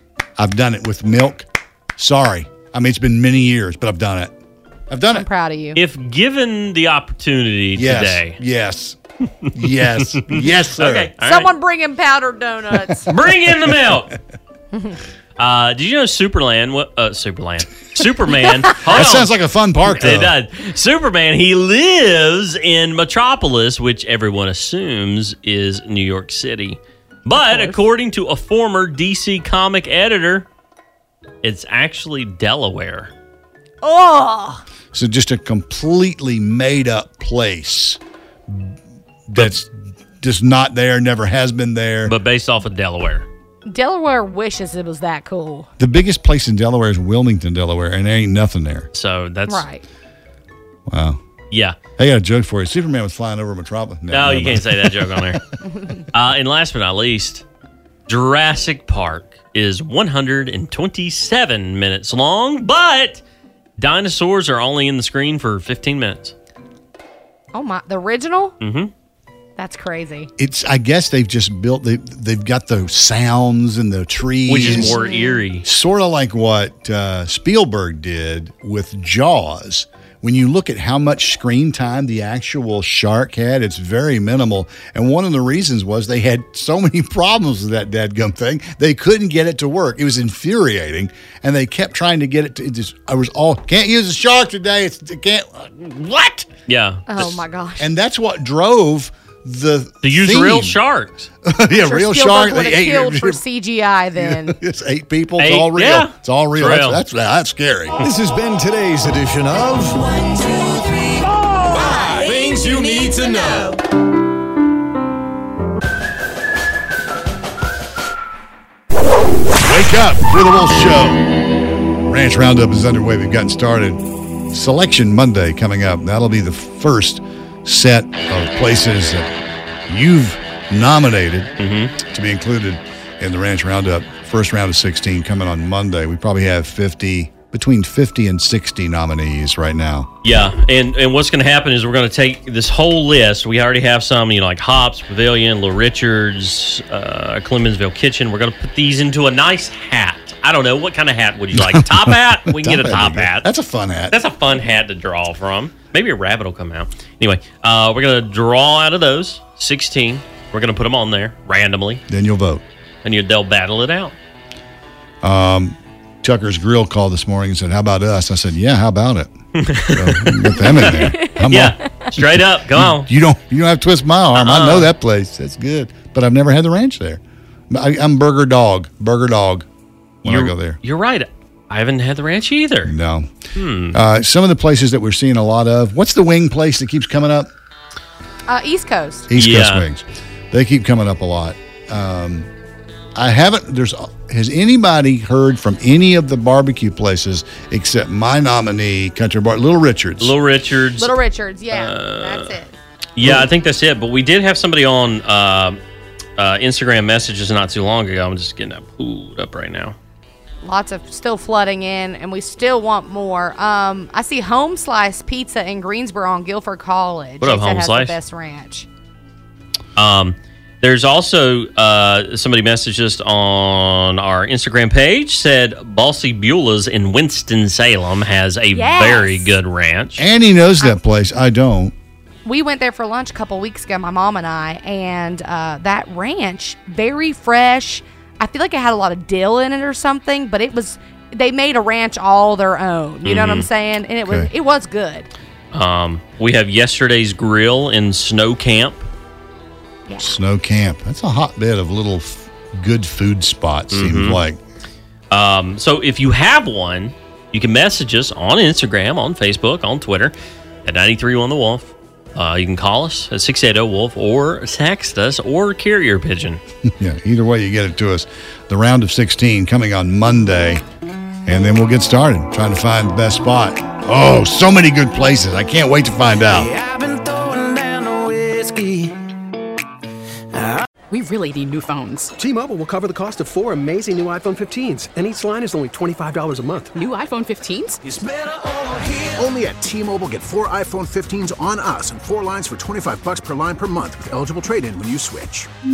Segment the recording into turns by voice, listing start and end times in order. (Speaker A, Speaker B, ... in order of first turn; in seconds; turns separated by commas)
Speaker A: 0.4-4.3, Speaker A: 4.9-5.3, Speaker B: 5.1-5.8, Speaker C: 5.7-8.3, Speaker A: 7.7-9.0, Speaker C: 9.4-11.5, Speaker A: 9.5-11.1, Speaker B: 11.2-13.1, Speaker C: 13.1-14.1, Speaker B: 14.7-15.0, Speaker C: 15.4-19.3, Speaker A: 18.9-20.3, Speaker C: 19.9-30.5, Speaker B: 27.3-27.8, Speaker C: 31.4-33.1, Speaker B: 33.8-34.6, Speaker A: 34.9-38.7, Speaker A: 39.3-42.1, Speaker C: 42.0-43.3, Speaker B: 43.6-45.7, Speaker A: 45.8-48.9, Speaker C: 48.9-49.6, Speaker B: 49.5-49.8, Speaker A: 50.9-51.2, Speaker C: 51.5-51.8, Speaker A: 52.0-55.4, Speaker C: 54.1-55.4, Speaker B: 55.6-56.0, Speaker C: 56.1-57.4, Speaker C: 58.1-63.2, Speaker C: 63.8-66.3, Speaker B: 67.5-68.5, Speaker C: 68.6-68.9, Speaker B: 69.6-70.3, Speaker A: 70.4-75.0, Speaker C: 74.5-75.6, Speaker B: 74.6-75.4, Speaker A: 75.6-96.5, Speaker C: 96.7-97.1, Speaker B: 97.1-97.9, Speaker A: 97.2-100.8, Speaker C: 100.0-101.3, Speaker A: 101.4-103.4, Speaker B: 101.8-104.6, Speaker A: 104.2-108.0, Speaker C: 105.4-107.0, Speaker D: 108.2-111.2, Speaker D: 111.7-113.8, Speaker A: 119.6-121.3, Speaker A: 122.0-129.3, Speaker A: 129.9-140.1, Speaker C: 131.6-131.9, Speaker C: 140.2-153.5, Speaker A: 151.5-154.1, Speaker C: 154.1-162.0, Speaker A: 162.1-162.6, Speaker C: 163.0-164.1, Speaker A: 165.2-169.3, Speaker C: 169.6-173.1, Speaker A: 169.8-179.7, Speaker B: 170.8-171.9, Speaker C: 174.4-174.9, Speaker A: 180.2-180.8, Speaker C: 180.2-182.9, Speaker A: 182.8-183.3, Speaker C: 183.6-184.0, Speaker A: 183.9-187.5, Speaker B: 188.5-189.3, Speaker A: 189.3-192.5, Speaker C: 189.3-189.8, Speaker A: 193.1-200.3, Speaker C: 200.2-201.2, Speaker B: 201.0-202.7, Speaker C: 201.7-202.5, Speaker C: 203.2-205.8, Speaker A: 203.2-203.5, Speaker C: 206.4-209.9, Speaker B: 210.6-218.9, Speaker C: 217.4-218.2, Speaker C: 219.9-230.2, Speaker B: 228.7-229.6, Speaker A: 230.2-231.9, Speaker B: 232.4-245.3, Speaker C: 243.2-243.7, Speaker C: 245.7-249.1, Speaker B: 250.1-250.3, Speaker A: 250.2-254.6, Speaker C: 253.9-254.4, Speaker C: 255.3-260.3, Speaker C: 260.8-266.6, Speaker A: 266.9-270.8, Speaker A: 271.4-276.7, Speaker D: 276.5-279.1, Speaker D: 280.5-280.8, Speaker E: 281.1-283.0, Speaker E: 284.0-285.8, Speaker E: 286.8-288.0, Speaker F: 288.0-295.7, Speaker D: 288.3-289.5